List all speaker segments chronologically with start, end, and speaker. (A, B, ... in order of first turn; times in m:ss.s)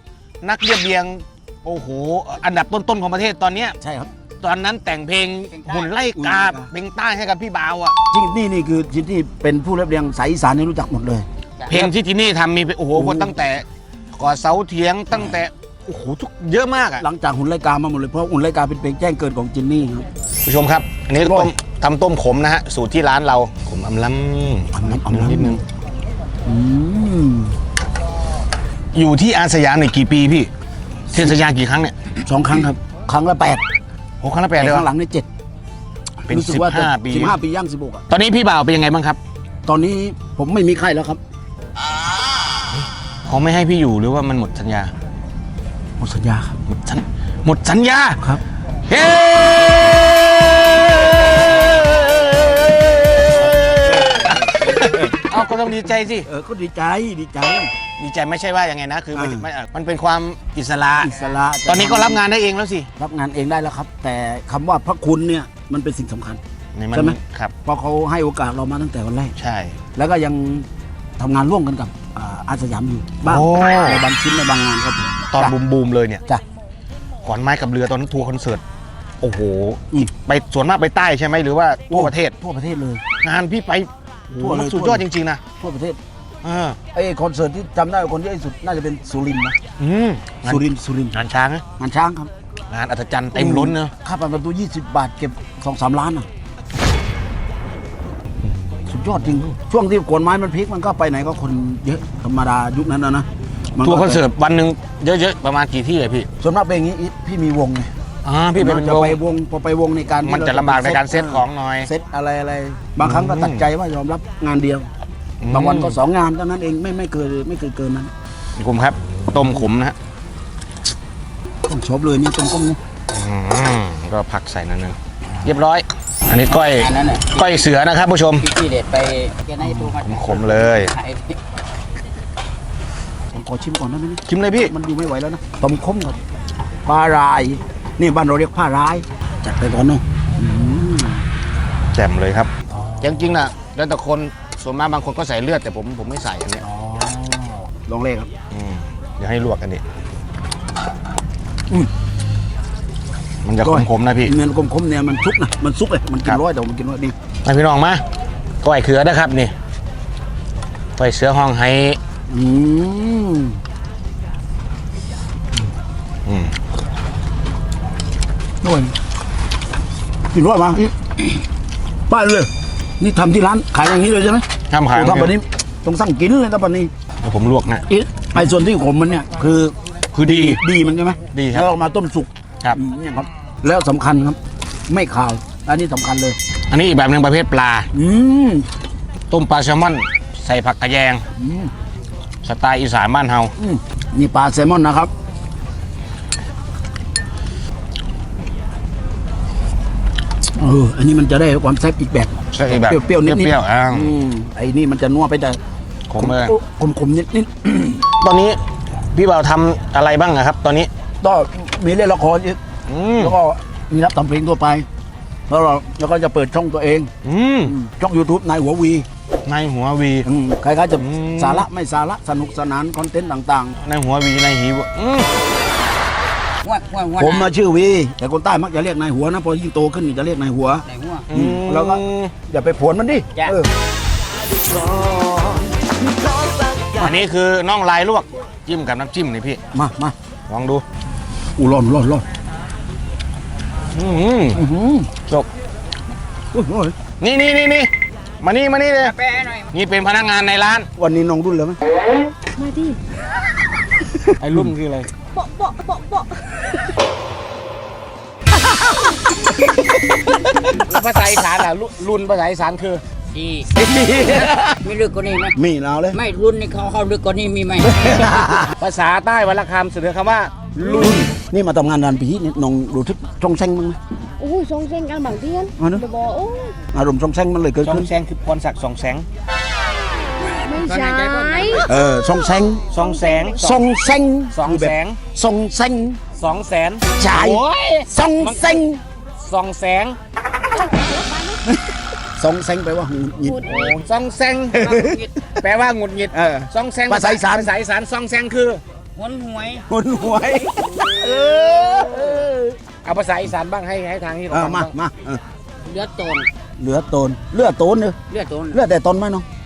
0:00.4-0:03.8 A
0:03.8-0:04.1 B
0:04.4-0:08.0 A
0:05.5-0:05.9 C
0:06.2-0:06.7 B
0:08.1-0:11.3 B
0:11.6-0:11.8 C
0:11.7-0:17.0 A
0:13.0-0:13.3 B
0:17.0-0:20.1 B
0:20.4-0:25.6 A
0:21.2-0:21.5 B
0:24.7-0:25.6 B
0:26.5-0:27.6 B
0:28.9-0:30.5 A
0:31.1-0:31.9 A
0:32.3-0:33.6 B
0:34.2-0:34.9 A
0:34.6-0:35.3 B
0:36.2-0:38.0 B
0:36.3-0:37.4 A
0:38.1-0:39.2 A
0:39.7-0:41.2 B
0:42.7-0:44.9 A
0:46.0-0:46.6 B
0:46.7-0:48.3 A
0:48.9-0:56.3 A
0:53.5-0:54.9 B
0:56.2-0:57.7 B
0:58.0-1:02.9 A
0:59.2-0:59.5 B
1:01.0-1:02.2 B
1:03.0-1:06.4 B
1:06.8-1:07.5 A
1:06.9-1:09.4 B
1:09.4-1:09.8 A
1:10.0-1:10.7 B
1:11.2-1:15.6 B
1:13.3-1:14.1 A
1:15.3-1:16.2 A
1:17.2-1:18.6 A
1:19.2-1:22.4 A
1:21.9-1:23.0 B
1:23.2-1:25.4 A
1:24.4-1:26.0 B
1:26.4-1:26.8 A
1:26.9-1:29.6 B
1:29.8-1:31.6 A
1:30.4-1:31.2 B
1:31.8-1:32.3 B
1:32.7-1:33.9 A
1:33.4-1:36.3 B
1:38.9-1:44.2 B
1:43.8-1:46.3 A
1:46.4-1:47.9 B
1:48.2-1:49.2 A
1:48.6-1:54.9 B
1:50.2-1:51.9 A
1:53.0-1:53.7 A
1:55.4-1:56.0 A
1:55.5-1:58.1 B
1:58.6-2:00.0 A
2:01.7-2:02.8 B
2:03.1-2:08.5 A
2:06.6-2:07.5 C
2:08.4-2:11.4 C
2:09.6-2:09.9 B
2:10.0-2:10.9 A
2:13.3-2:16.2 B
2:14.3-2:14.7 A
2:16.9-2:21.2 B
2:21.9-2:26.6 A
2:22.7-2:23.2 B
2:26.6-2:28.3 B
2:28.5-2:29.8 A
2:33.4-2:34.3 A
2:33.6-2:37.2 B
2:37.4-2:38.0 A
2:38.6-2:39.5 A
2:41.0-2:42.0 A
2:42.3-2:43.6 B
2:46.3-2:46.6 A
2:48.6-2:48.9 B
2:50.3-2:51.4 B
2:52.1-2:56.9 B
2:54.7-2:55.4 A
2:57.2-2:57.8 A
2:57.9-3:06.4 B
3:00.1-3:00.6 A
3:01.3-3:01.7 A
3:06.7-3:07.9 A
3:07.9-3:08.7 B
3:09.3-3:11.2 A
3:11.4-3:11.7 B
3:12.4-3:13.5 A
3:13.6-3:15.1 B
3:20.6-3:25.6 B
3:22.5-3:24.2 A
3:26.1-3:26.6 A
3:26.2-3:28.0 B
3:28.2-3:30.9 A
3:31.2-3:32.6 B
3:32.9-3:33.4 A
3:33.2-3:34.9 B
3:35.5-3:37.1 B
3:37.2-3:37.7 A
3:37.6-3:39.1 B
3:39.4-3:40.3 A
3:40.2-3:43.8 B
3:40.9-3:41.7 A
3:43.8-3:45.4 A
3:46.6-3:47.5 C
3:47.2-3:53.7 B
3:50.9-3:51.3 C
3:51.3-3:52.3 A
3:54.6-3:57.2 B
3:57.0-3:59.6 A
3:59.7-4:00.2 B
4:00.5-4:00.8 A
4:01.6-4:02.2 B
4:03.9-4:04.6 A
4:04.6-4:05.1 B
4:06.5-4:07.0 B
4:07.2-4:09.2 A
4:09.0-4:09.7 C
4:09.7-4:10.9 A
4:11.0-4:11.8 B
4:12.6-4:13.0 D
4:14.4-4:15.1 A
4:15.3-4:16.8 D
4:20.7-4:23.0 A
4:23.3-4:23.7 C
4:23.8-4:24.8 B
4:24.4-4:25.6 C
4:25.6-4:26.2 B
4:26.1-4:28.2 C
4:27.8-4:28.7 B
4:28.6-4:31.2 A
4:30.8-4:34.0 B
4:34.4-4:36.8 D
4:35.8-4:36.0 B
4:36.9-4:38.1 B
4:37.8-4:39.3 A
4:40.5-4:41.8 D
4:40.8-4:41.9 A
4:41.8-4:42.9 B
4:42.9-4:43.8 A
4:43.0-4:43.8 D
4:43.6-4:46.2 B
4:44.5-4:45.2 A
4:46.3-4:48.8 A
4:47.2-4:49.0 B
4:49.4-4:50.2 A
4:50.7-4:51.6 D
4:51.7-4:53.7 B
4:53.4-4:54.0 D
4:53.6-4:55.0 A
4:54.8-4:55.2 B
4:54.8-4:55.3 C
4:55.6-4:58.8 A
4:56.3-4:57.7 B
4:59.2-4:59.8 C
4:59.9-5:02.6 B
5:00.7-5:04.9 A
5:04.5-5:05.4 B
5:05.8-5:06.5 C
5:06.8-5:08.2 B
5:08.3-5:08.8 C
5:08.7-5:09.4 B